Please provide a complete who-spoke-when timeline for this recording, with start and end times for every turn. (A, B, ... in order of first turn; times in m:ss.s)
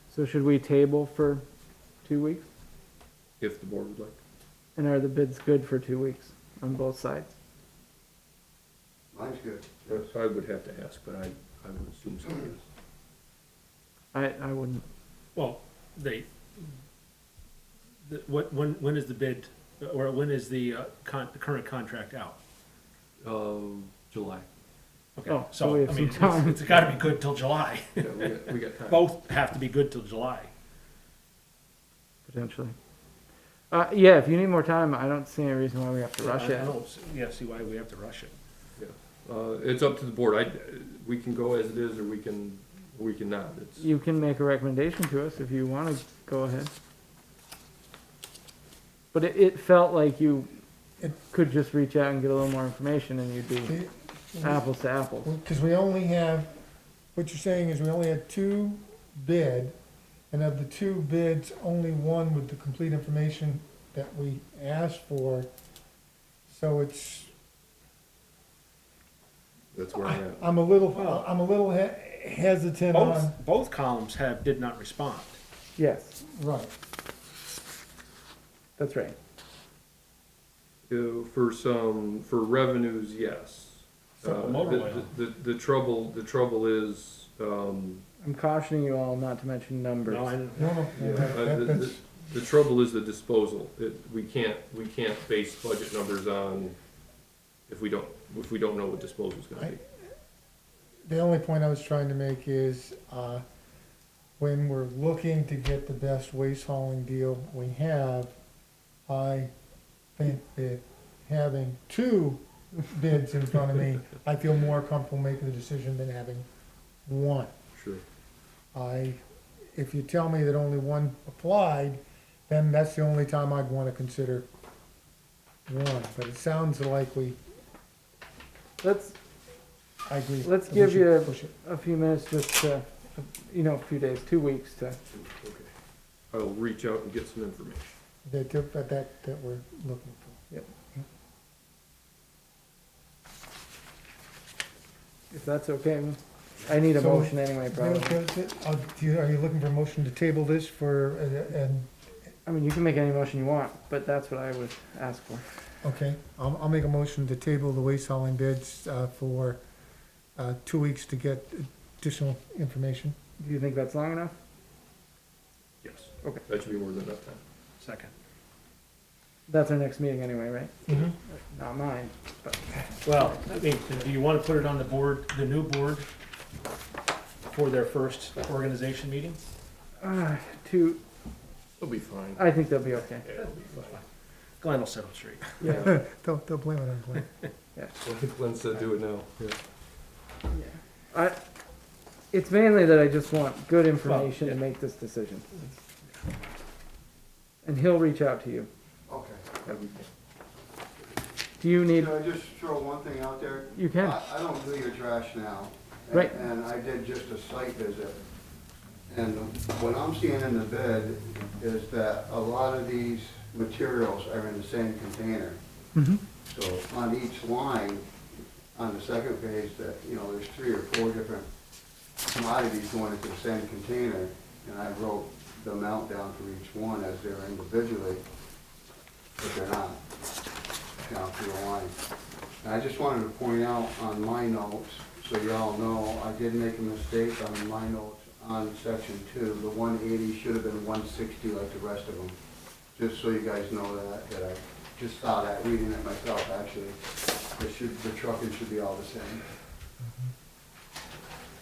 0:00.1-0:01.4 A
0:02.0-0:02.4 A
0:03.4-0:04.2 B
0:04.8-0:07.3 A
0:09.1-0:10.1 C
0:09.9-0:12.6 B
0:14.1-0:14.8 A
0:15.4-0:16.7 D
0:18.0-0:22.4 D
0:23.2-0:24.5 B
0:25.2-0:30.5 D
0:25.3-0:26.7 A
0:28.0-0:29.1 B
0:32.3-0:32.8 A
0:33.7-0:36.8 A
0:36.2-0:38.3 D
0:38.8-0:43.8 B
0:43.8-0:46.7 A
0:49.1-0:50.5 A
0:51.2-0:53.8 A
0:53.6-0:54.6 E
0:54.4-0:55.3 A
0:55.2-0:56.5 E
0:57.1-0:59.8 E
1:00.3-1:05.5 E
1:06.5-1:07.3 E
1:09.7-1:10.4 B
1:10.0-1:13.4 E
1:10.9-1:11.2 D
1:12.9-1:15.4 D
1:15.8-1:16.2 A
1:16.2-1:16.7 E
1:18.8-1:19.2 A
1:20.9-1:28.0 B
1:24.2-1:25.1 D
1:28.2-1:30.3 A
1:30.1-1:30.8 D
1:30.6-1:32.0 E
1:31.0-1:36.8 B
1:37.7-1:39.8 B
1:41.0-1:43.4 E
1:44.4-1:48.4 E
1:49.1-1:49.5 E
1:50.2-1:56.4 E
1:57.1-1:57.5 E
1:57.8-1:58.0 B
1:58.7-1:59.2 E
1:59.7-2:04.5 E
2:05.7-2:07.4 E
2:08.8-2:09.2 A
2:10.1-2:11.5 E
2:10.4-2:15.0 A
2:15.2-2:15.7 B
2:16.3-2:17.9 B
2:18.2-2:21.0 E
2:25.3-2:28.2 A
2:26.9-2:31.9 E
2:32.4-2:35.4 A
2:35.8-2:39.6 E
2:40.4-2:43.2 E
2:43.4-2:44.4 A
2:45.8-2:47.4 B
2:47.8-2:48.1 D
2:49.5-2:53.6 A
2:50.9-2:51.1 B
2:53.0-2:56.1 D
2:57.5-2:59.4 D
3:00.0-3:01.0 A
3:01.8-3:02.4 B
3:02.3-3:03.3 A
3:03.2-3:04.0 B
3:03.4-3:04.0 D
3:04.6-3:05.6 D
3:05.6-3:05.9 A
3:05.6-3:07.3 E
3:08.0-3:09.5 B
3:10.5-3:11.4 A
3:12.3-3:15.8 A
3:14.1-3:14.6 D
3:17.6-3:18.7 A
3:19.1-3:19.6 C
3:19.7-3:20.0 B
3:21.6-3:22.1 A
3:21.9-3:28.2 C
3:23.7-3:24.2 A
3:26.1-3:26.4 A
3:29.1-3:35.6 C
3:36.0-3:36.2 A
3:36.4-3:38.0 C
3:38.8-3:41.5 C
3:42.3-3:48.2 C
3:49.4-3:50.0 C
3:51.1-3:52.0 C
3:52.6-4:02.4 C
4:03.0-4:07.0 C
4:07.6-4:09.4 C